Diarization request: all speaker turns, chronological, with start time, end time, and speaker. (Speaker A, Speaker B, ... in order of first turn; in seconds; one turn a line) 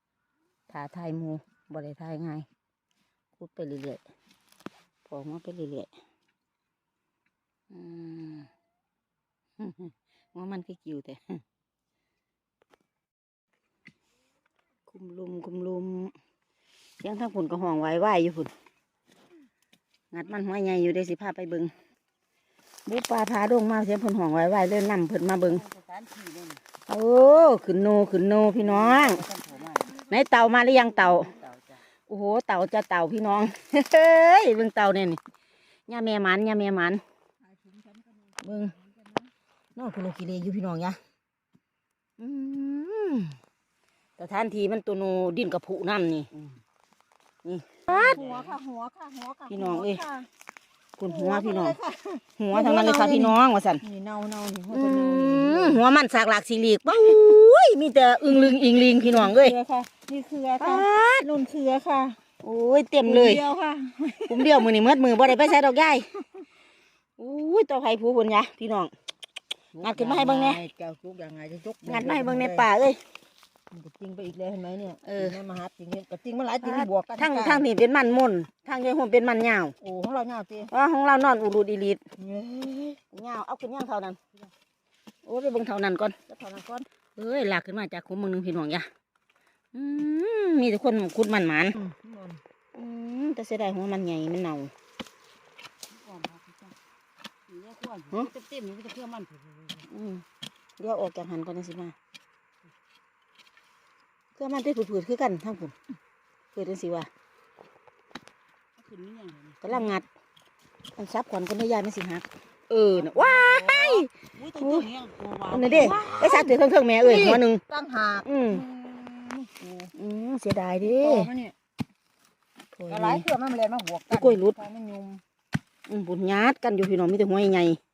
Speaker A: 0.7-2.5
Speaker A: 3.3-4.0
Speaker A: 5.1-5.9
Speaker A: 7.7-8.5
Speaker A: 9.6-11.4
Speaker A: 14.9-16.1
Speaker A: 17.0-18.5
Speaker A: 20.1-21.7
Speaker A: 22.9-25.7
Speaker B: 25.7-26.0
Speaker A: 26.9-29.3
Speaker A: 29.9-31.4
Speaker A: 32.1-35.2
Speaker A: 35.9-37.0
Speaker C: 37.4-39.3
Speaker A: 38.4-38.8
Speaker A: 39.8-41.0
Speaker A: 42.2-43.4
Speaker A: 44.2-46.4
Speaker A: 47.5-48.6
Speaker C: 47.9-50.3
Speaker A: 49.5-50.1
Speaker A: 51.0-51.8
Speaker C: 51.1-55.8
Speaker A: 52.4-53.9
Speaker A: 54.7-59.6
Speaker C: 59.0-62.2
Speaker A: 60.6-61.4
Speaker A: 62.4-63.5
Speaker C: 63.0-64.7
Speaker A: 64.3-66.2
Speaker A: 67.2-68.9
Speaker C: 69.7-72.7
Speaker A: 69.8-70.6
Speaker A: 71.8-73.0
Speaker C: 73.7-77.7
Speaker A: 75.0-75.4
Speaker A: 76.6-79.8
Speaker C: 79.8-80.7
Speaker A: 80.7-82.0
Speaker C: 82.2-83.0
Speaker A: 83.0-84.3
Speaker A: 85.2-86.4
Speaker C: 86.4-86.9
Speaker A: 87.2-88.9
Speaker A: 89.7-91.8
Speaker C: 91.8-92.4
Speaker A: 92.8-94.7
Speaker B: 97.5-97.8
Speaker B: 98.4-99.4
Speaker A: 99.8-100.2
Speaker A: 100.8-102.0
Speaker A: 104.3-105.8
Speaker A: 106.5-107.1
Speaker B: 108.8-109.6
Speaker A: 109.6-110.1
Speaker A: 111.0-114.9
Speaker C: 113.2-113.7
Speaker B: 114.8-115.7
Speaker A: 115.4-117.6
Speaker C: 115.6-119.9
Speaker A: 118.2-118.7
Speaker A: 119.9-121.3
Speaker C: 120.8-121.6
Speaker A: 122.7-123.3
Speaker C: 122.9-125.2
Speaker A: 124.1-124.6
Speaker A: 125.9-127.8